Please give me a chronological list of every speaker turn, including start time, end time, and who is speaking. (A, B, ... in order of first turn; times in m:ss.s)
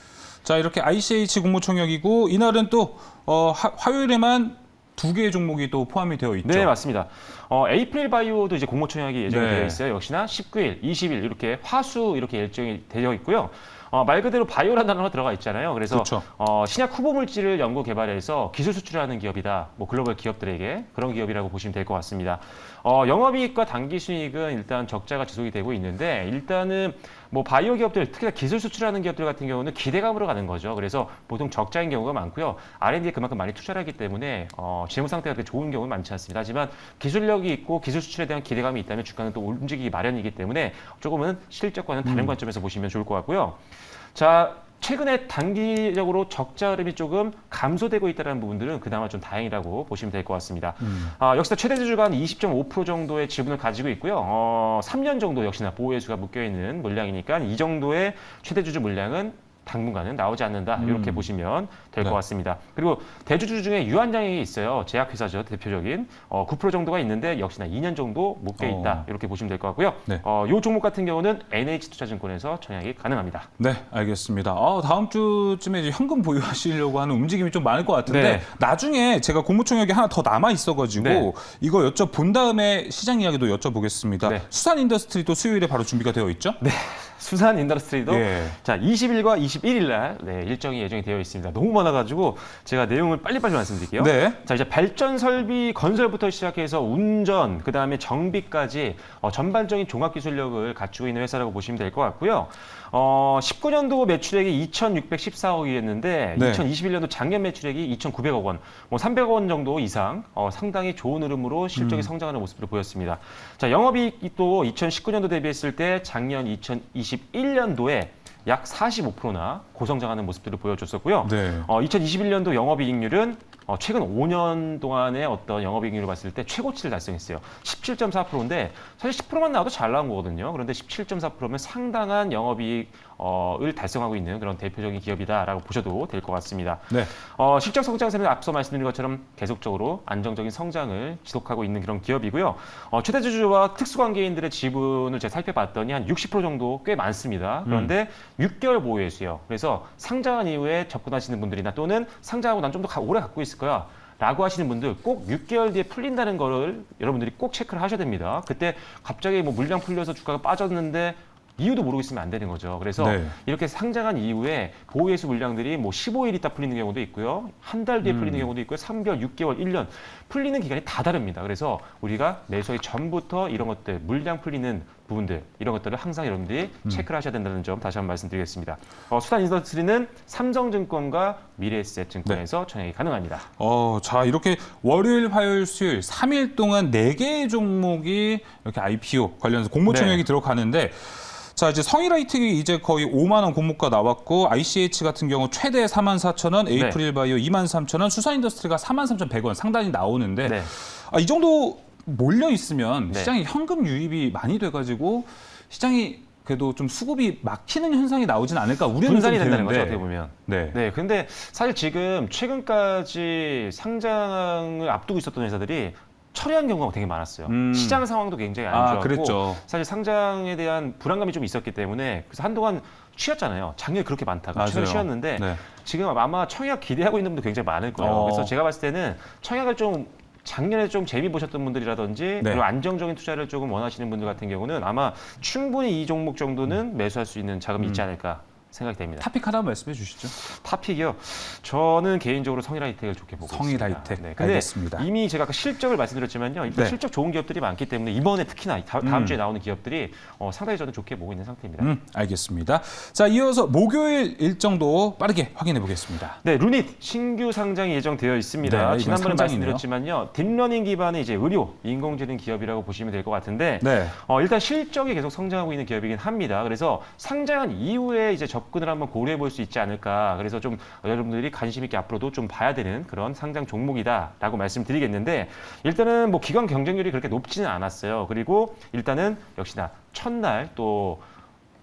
0:00.4-0:06.7 A
0:06.4-0:43.6 B
0:09.3-0:09.8 A
0:15.9-0:16.2 A
0:42.0-0:42.4 A
0:44.1-1:13.5 B
0:50.8-0:51.1 A
1:00.8-1:01.3 A
1:08.6-1:09.0 A
1:13.6-1:26.6 A
1:18.0-1:18.5 B
1:21.0-1:21.3 B
1:26.6-3:03.5 B
1:28.1-1:28.6 A
1:34.0-1:34.4 A
1:46.4-1:46.6 A
1:51.8-1:52.1 A
2:01.2-2:01.7 A
2:27.7-2:27.9 A
2:43.0-2:43.4 A
2:48.0-2:48.5 A
3:03.6-3:30.8 A
3:09.8-3:10.2 B
3:16.7-3:17.0 B
3:20.4-3:20.7 B
3:29.0-3:59.2 B
3:37.5-3:38.0 A
3:38.7-3:39.6 A
3:44.5-3:45.6 A
3:48.0-3:48.5 A
3:59.2-4:00.3 A
4:00.3-4:11.9 B
4:03.5-4:05.0 A
4:09.0-4:09.4 A
4:11.8-4:16.4 A
4:16.4-4:41.2 B
4:18.6-4:19.8 A
4:23.8-4:24.1 A